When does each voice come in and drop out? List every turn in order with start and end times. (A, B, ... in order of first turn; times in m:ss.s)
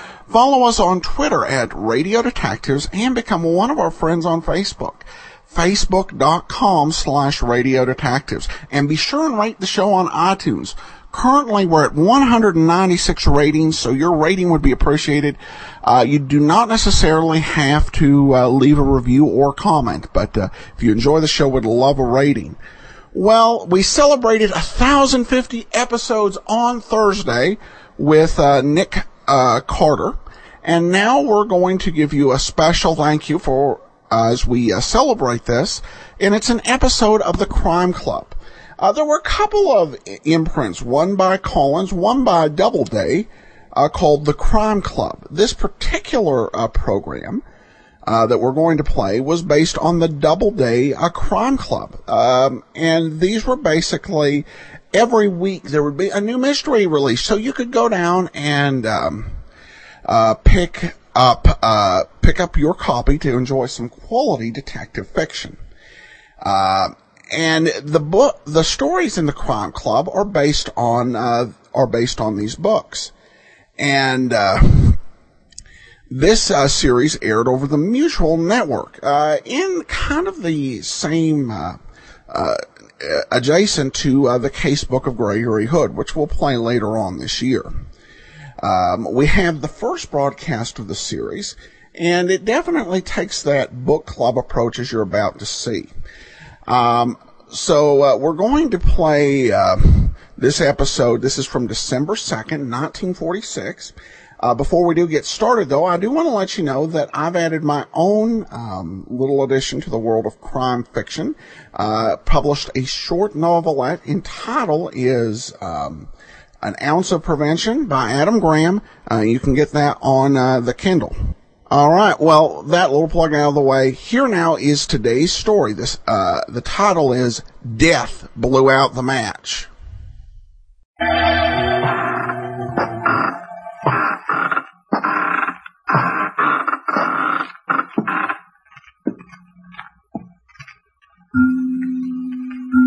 0:00.3-0:22.6 A
0:23.1-0:47.4 A
0:48.0-0:59.4 A
1:00.0-1:05.6 A
1:06.4-1:13.1 A
1:13.8-1:15.0 A
1:16.1-1:27.7 A
1:28.6-1:35.9 A
1:36.7-1:56.1 A
1:56.6-2:01.2 A
2:01.7-2:09.7 A